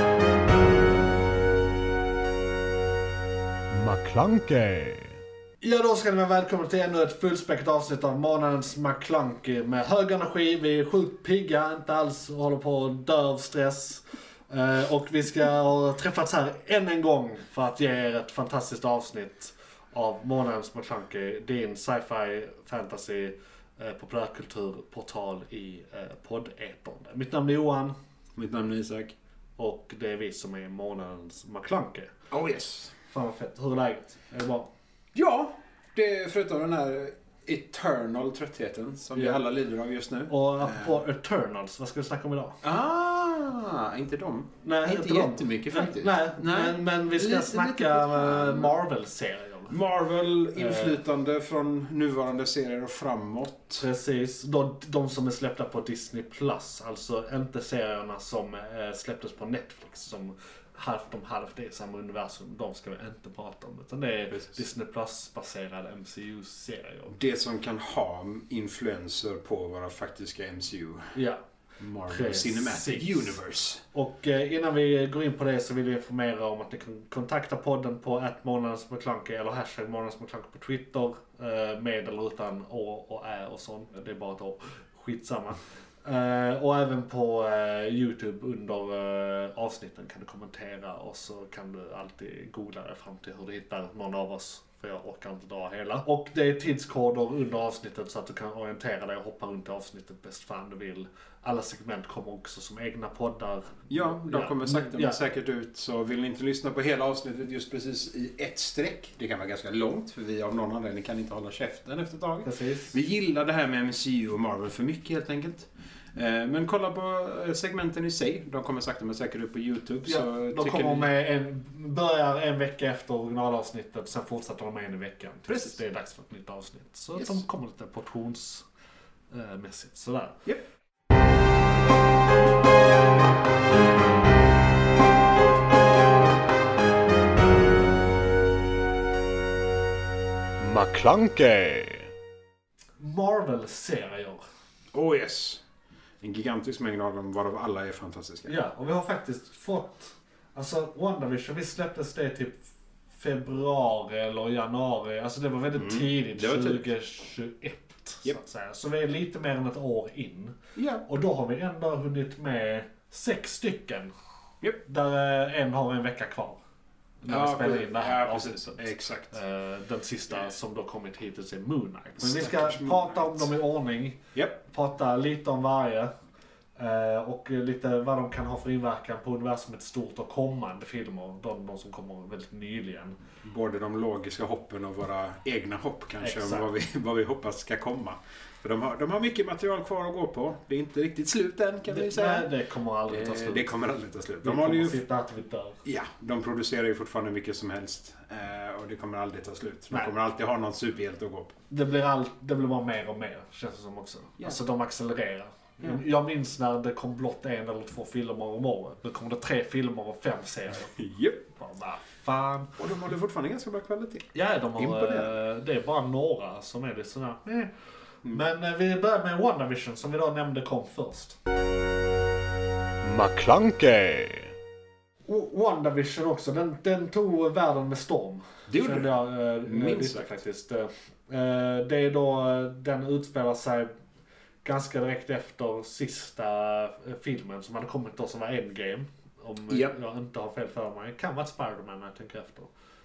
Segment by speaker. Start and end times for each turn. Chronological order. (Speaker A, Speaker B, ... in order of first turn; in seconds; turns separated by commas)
Speaker A: 3.7-5.2, Speaker B: 5.6-27.9, Speaker C: 28.3-29.2, Speaker B: 29.6-32.1, Speaker C: 32.3-32.9, Speaker B: 33.1-34.7, Speaker C: 35.1-41.0, Speaker B: 39.1-39.4, Speaker B: 40.3-42.6, Speaker C: 42.6-48.8, Speaker B: 44.6-49.7, Speaker C: 49.7-53.8, Speaker B: 50.5-51.0, Speaker B: 53.8-67.1, Speaker C: 64.3-64.5, Speaker C: 67.1-71.2, Speaker B: 71.1-71.4, Speaker C: 71.8-73.8, Speaker B: 72.1-73.4, Speaker B: 73.9-105.2, Speaker C: 103.9-121.1, Speaker B: 112.5-112.9, Speaker B: 120.0-128.6, Speaker C: 125.5-125.8, Speaker C: 127.2-127.4, Speaker B: 129.3-130.4, Speaker A: 140.6-142.1, Speaker B: 143.0-144.4, Speaker C: 144.9-145.6, Speaker C: 146.2-148.5, Speaker B: 148.4-152.6, Speaker B: 153.1-164.1, Speaker C: 155.8-156.9, Speaker C: 160.8-161.1, Speaker B: 164.8-166.6, Speaker B: 167.2-176.1, Speaker C: 167.3-169.4, Speaker C: 172.2-173.5, Speaker B: 176.8-183.2, Speaker C: 183.4-192.5, Speaker B: 186.2-186.7, Speaker B: 191.9-193.7, Speaker C: 193.1-195.0, Speaker B: 194.4-195.8, Speaker C: 195.8-201.6, Speaker B: 201.7-210.9, Speaker C: 210.9-211.4, Speaker B: 211.5-212.8, Speaker C: 212.8-215.3, Speaker B: 214.3-217.7, Speaker B: 218.3-221.4, Speaker A: 223.0-224.5, Speaker B: 225.3-233.9, Speaker C: 228.7-230.4, Speaker B: 234.6-242.7